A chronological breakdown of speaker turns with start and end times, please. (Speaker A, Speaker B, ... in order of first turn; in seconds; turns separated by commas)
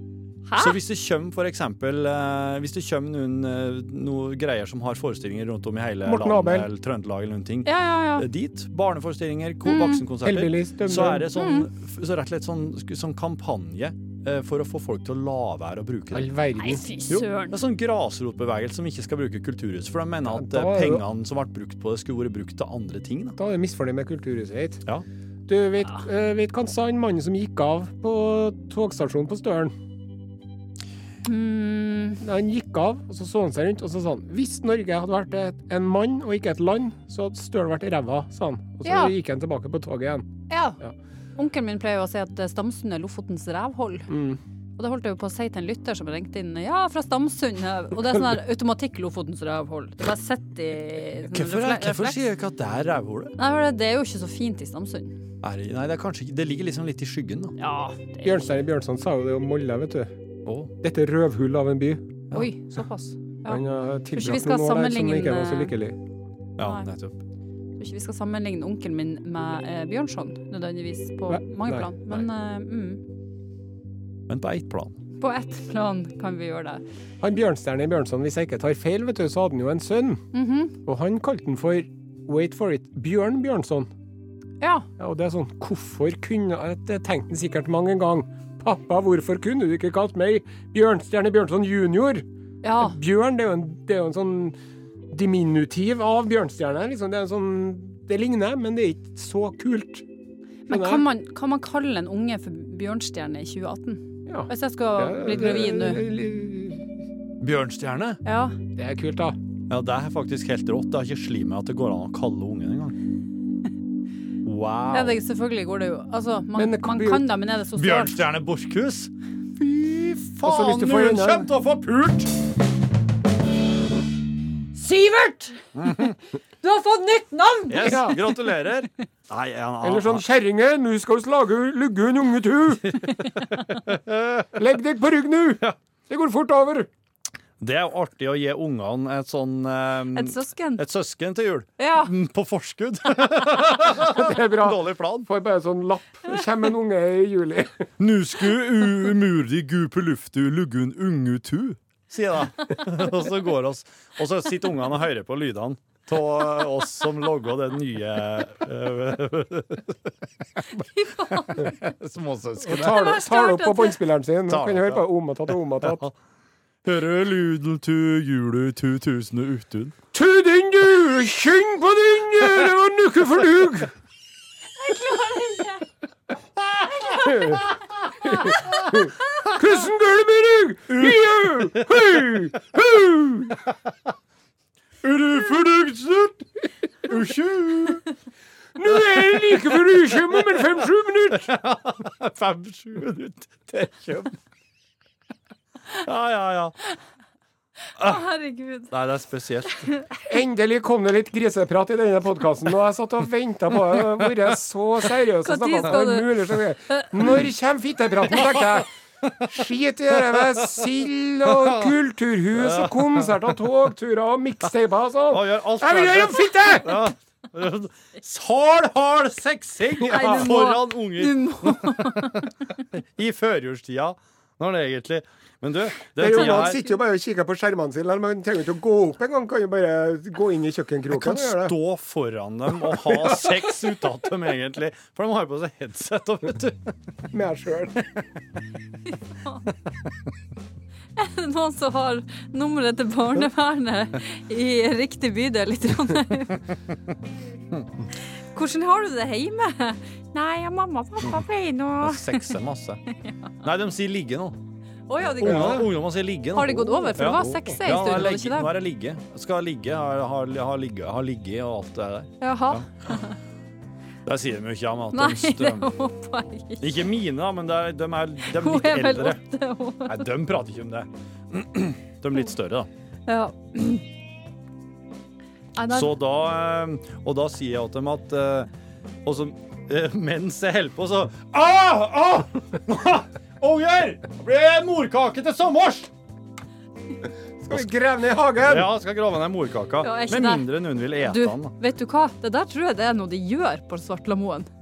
Speaker A: 0.5-0.8, Speaker B: 0.6-16.3, Speaker C: 6.0-6.7, Speaker A: 7.6-8.2, Speaker A: 9.6-10.1, Speaker C: 10.2-11.3, Speaker A: 11.3-11.7, Speaker C: 16.1-16.9, Speaker A: 16.6-17.6, Speaker B: 17.1-23.4, Speaker C: 20.2-21.0, Speaker C: 23.4-24.8, Speaker C: 25.5-29.7, Speaker A: 31.2-32.2, Speaker C: 32.2-40.3, Speaker A: 38.8-39.1, Speaker A: 40.5-40.8, Speaker A: 41.4-44.1, Speaker C: 44.1-44.4, Speaker A: 44.8-52.2, Speaker B: 51.3-53.4, Speaker A: 53.4-55.2, Speaker B: 55.4-57.5, Speaker A: 57.6-58.4, Speaker C: 58.2-60.1, Speaker B: 60.5-60.7, Speaker C: 60.8-62.2, Speaker A: 62.3-63.6, Speaker C: 63.5-66.0, Speaker A: 64.1-65.7, Speaker B: 66.6-67.2, Speaker A: 66.6-66.9, Speaker A: 67.8-73.0, Speaker C: 71.3-71.9, Speaker B: 74.3-75.0, Speaker A: 75.2-76.8, Speaker C: 77.2-80.2, Speaker A: 80.3-80.7, Speaker C: 80.8-83.9, Speaker A: 84.6-84.9, Speaker C: 85.0-92.2, Speaker A: 92.6-93.0, Speaker C: 92.8-94.5, Speaker C: 95.1-100.0, Speaker C: 100.7-101.0, Speaker A: 100.7-106.0, Speaker C: 104.2-106.9, Speaker B: 107.4-108.2, Speaker A: 108.2-108.6, Speaker C: 108.8-109.4, Speaker B: 109.7-113.0, Speaker B: 114.4-115.2, Speaker A: 114.9-118.2, Speaker C: 116.5-117.2, Speaker B: 117.8-122.3, Speaker C: 120.4-121.5, Speaker A: 124.7-126.0, Speaker B: 125.7-126.2, Speaker A: 126.6-128.2, Speaker B: 127.7-130.2, Speaker C: 127.8-128.2, Speaker C: 129.8-132.9, Speaker B: 132.9-134.6, Speaker C: 134.5-136.9, Speaker B: 137.6-145.3, Speaker A: 140.1-140.8, Speaker A: 141.8-142.1, Speaker C: 144.0-147.9, Speaker B: 148.0-160.1, Speaker A: 160.7-161.8, Speaker B: 161.4-163.1, Speaker C: 162.6-166.0, Speaker A: 162.7-164.0, Speaker B: 164.5-165.0, Speaker B: 165.8-166.1, Speaker B: 166.8-169.9, Speaker C: 170.1-173.9, Speaker A: 174.8-175.8, Speaker A: 177.0-177.4, Speaker C: 177.2-177.6, Speaker C: 178.2-183.6, Speaker B: 180.9-182.4, Speaker B: 185.0-186.4, Speaker B: 187.0-188.0, Speaker C: 188.7-191.5, Speaker B: 189.0-190.7, Speaker B: 191.3-194.3, Speaker B: 195.9-196.8, Speaker A: 198.0-198.9, Speaker B: 198.0-198.2, Speaker B: 198.9-199.9, Speaker C: 200.2-208.9, Speaker A: 205.4-207.1, Speaker B: 209.2-209.5, Speaker C: 209.4-217.0, Speaker B: 210.3-210.9, Speaker B: 211.4-211.9, Speaker B: 212.5-213.4, Speaker B: 215.3-226.8, Speaker C: 220.0-220.4, Speaker A: 220.1-222.8, Speaker C: 226.2-231.7, Speaker B: 231.1-236.9, Speaker C: 232.7-233.6, Speaker C: 237.3-238.0, Speaker A: 241.2-246.7, Speaker B: 247.7-248.1, Speaker A: 248.3-252.6, Speaker B: 252.0-253.0, Speaker A: 253.1-253.5, Speaker B: 253.6-254.6, Speaker A: 255.1-255.9, Speaker B: 255.4-263.2, Speaker C: 255.4-255.9, Speaker A: 256.5-258.7, Speaker A: 262.4-263.4, Speaker B: 264.2-265.9, Speaker A: 265.1-267.0, Speaker B: 266.8-269.4, Speaker A: 268.4-270.3, Speaker B: 270.1-272.9, Speaker A: 273.3-274.1, Speaker A: 275.8-276.1, Speaker B: 275.9-278.7, Speaker B: 279.2-286.1, Speaker C: 287.6-288.9, Speaker B: 288.6-291.7, Speaker A: 290.0-290.7, Speaker A: 291.2-294.7